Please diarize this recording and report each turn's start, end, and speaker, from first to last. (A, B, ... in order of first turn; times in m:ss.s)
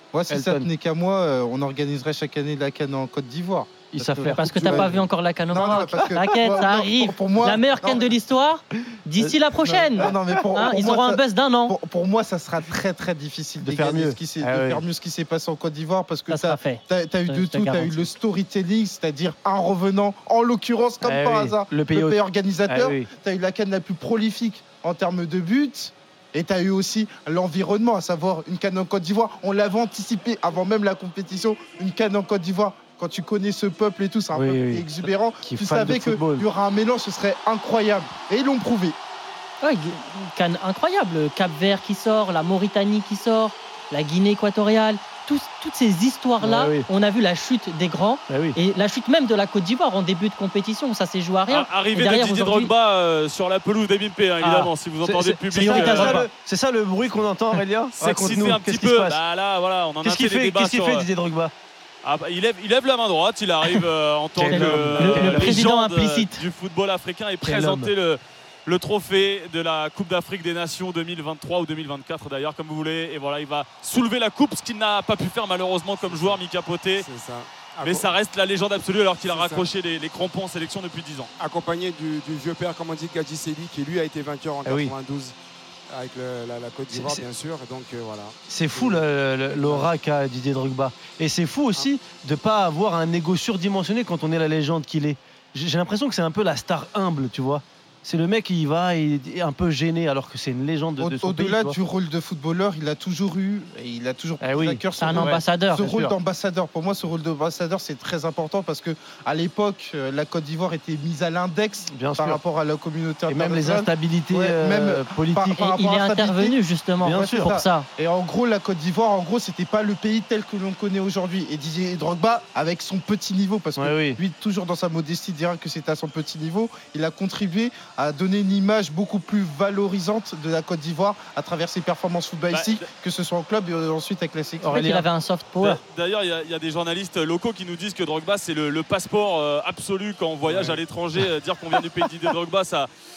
0:00.1-0:05.0 A
0:00.3-0:00.6 B
0:03.9-0:05.0 B
0:04.3-0:11.7 C
0:05.5-0:08.1 A
0:09.6-0:39.0 A
0:10.0-0:10.7 B
0:13.6-0:14.8 B
0:16.3-0:18.0 C
0:21.0-0:23.1 B
0:34.3-0:34.8 B
0:35.4-0:36.4 B
0:39.6-0:52.7 C
0:46.4-0:46.9 B
0:48.3-0:48.6 B
0:51.5-0:56.2 D
0:54.4-0:59.2 B
0:55.5-0:56.3 C
0:58.0-1:01.1 D
1:00.0-1:01.5 B
1:02.0-1:17.0 D
1:04.4-1:05.6 B
1:04.5-1:06.4 C
1:07.4-1:07.9 B
1:16.0-1:16.4 E
1:17.0-1:18.1 E
1:17.8-1:21.3 D
1:19.2-1:19.7 E
1:21.4-1:25.3 E
1:24.6-1:24.9 B
1:25.9-1:29.9 E
1:26.9-1:27.2 B
1:28.5-1:41.7 B
1:41.0-2:14.8 A
1:44.4-1:46.1 B
1:45.0-1:45.8 C
1:51.9-1:52.4 B
1:53.3-1:55.6 B
1:55.6-1:57.9 C
1:57.0-1:57.5 B
2:03.8-2:04.2 B
2:12.5-2:12.9 D
2:14.6-2:15.1 B
2:14.7-2:15.8 C
2:15.6-2:22.9 D